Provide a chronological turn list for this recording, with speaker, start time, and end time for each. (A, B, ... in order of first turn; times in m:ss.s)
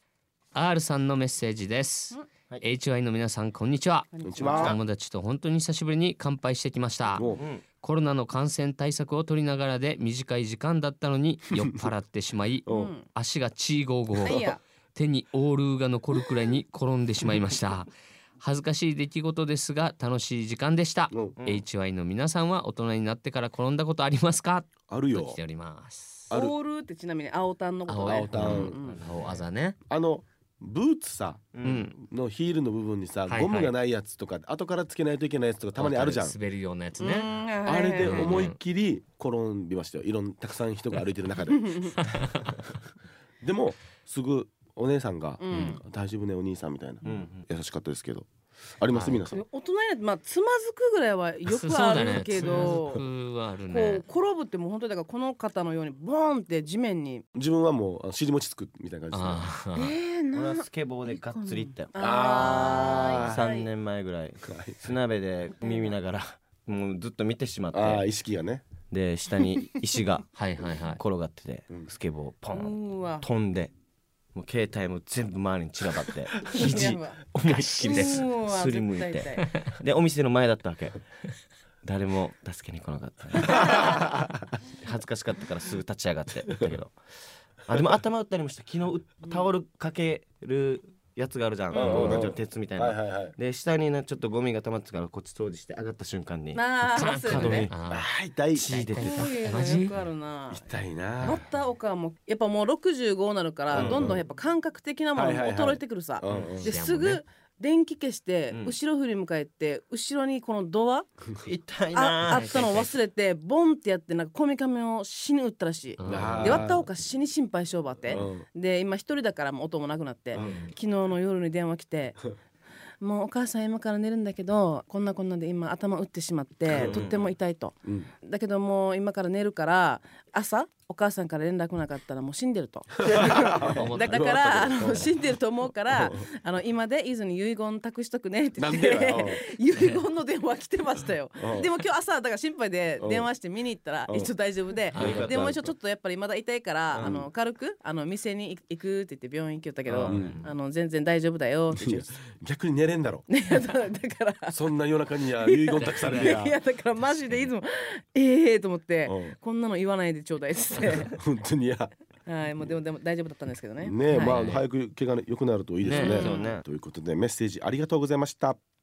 0:00.5-0:07.2 A
0:04.2-0:04.8 B
0:04.2-0:04.8 C
0:07.1-0:07.4 C
0:07.3-0:07.6 D
0:07.8-0:26.3 A
0:12.6-0:12.9 C
0:12.7-0:13.1 B
0:14.2-0:14.6 B
0:21.1-0:21.4 C
0:21.4-0:21.6 D
0:24.9-0:25.4 C
0:26.3-0:29.0 B
0:27.9-0:29.8 A
0:28.0-0:28.8 C
0:28.7-0:29.4 D
0:29.9-0:36.4 C
0:31.5-0:31.9 D
0:31.6-0:32.0 A
0:33.2-0:33.7 A
0:35.7-0:37.3 A
0:37.0-0:38.5 B
0:37.6-0:41.8 C
0:38.0-0:38.6 A
0:41.5-0:41.9 B
0:42.0-0:42.6 A
0:43.4-0:48.3 C
0:45.4-0:45.8 B
0:45.5-0:45.8 A
0:47.0-0:47.4 D
0:48.8-0:49.4 C
0:48.9-0:49.2 A
0:49.3-0:53.0 B
0:51.4-0:54.0 A
0:53.7-0:57.2 B
0:57.3-0:59.5 C
0:59.1-0:59.9 A
0:59.7-1:03.7 B
1:00.3-1:08.1 D
1:02.0-1:03.4 C
1:04.4-1:04.8 C
1:07.7-1:08.7 C
1:08.9-1:13.7 D
1:10.3-1:11.0 A
1:12.5-1:13.2 B
1:14.3-1:21.0 D
1:16.4-1:17.2 B
1:17.5-1:18.2 A
1:17.8-1:19.4 B
1:21.8-1:23.8 D
1:23.6-1:24.4 C
1:24.7-1:26.9 D
1:27.7-1:37.7 D
1:31.7-1:32.3 B
1:31.7-1:33.3 C
1:36.5-1:37.7 B
1:36.9-1:38.1 A
1:37.9-1:38.8 C
1:38.5-1:39.3 D
1:38.7-1:39.9 A
1:39.0-1:40.6 B
1:40.5-1:41.4 C
1:41.2-1:51.1 B
1:43.7-1:44.2 C
1:43.7-1:44.1 D
1:45.1-1:46.7 C
1:46.6-1:47.2 A
1:51.4-1:52.8 D
1:51.9-2:02.2 B
1:52.3-1:52.9 A
1:56.0-1:56.6 A
1:56.1-1:56.8 C
1:58.1-1:58.4 C
2:00.4-2:00.7 D
2:00.4-2:00.7 A
2:03.0-2:32.1 B
2:06.7-2:07.2 D
2:06.7-2:07.0 C
2:13.1-2:15.2 C
2:13.7-2:14.3 A
2:15.9-2:16.2 C
2:18.6-2:19.4 C
2:21.4-2:21.7 C
2:23.0-2:23.3 C
2:24.9-2:25.3 A
2:25.0-2:25.7 D
2:26.9-2:27.2 D
2:27.0-2:27.3 C
2:29.9-2:30.5 A
2:30.1-2:30.4 C
2:31.7-2:33.3 C
2:33.3-2:34.6 B
2:34.5-2:36.6 C
2:35.4-2:41.2 B
2:35.8-2:36.4 A
2:37.1-2:37.5 A
2:39.0-2:39.4 C
2:40.9-2:41.9 C
2:42.2-2:44.4 B
2:43.8-2:48.6 C
2:44.1-2:44.7 A
2:45.8-2:46.3 A
2:46.0-2:46.5 B
2:46.0-2:46.6 D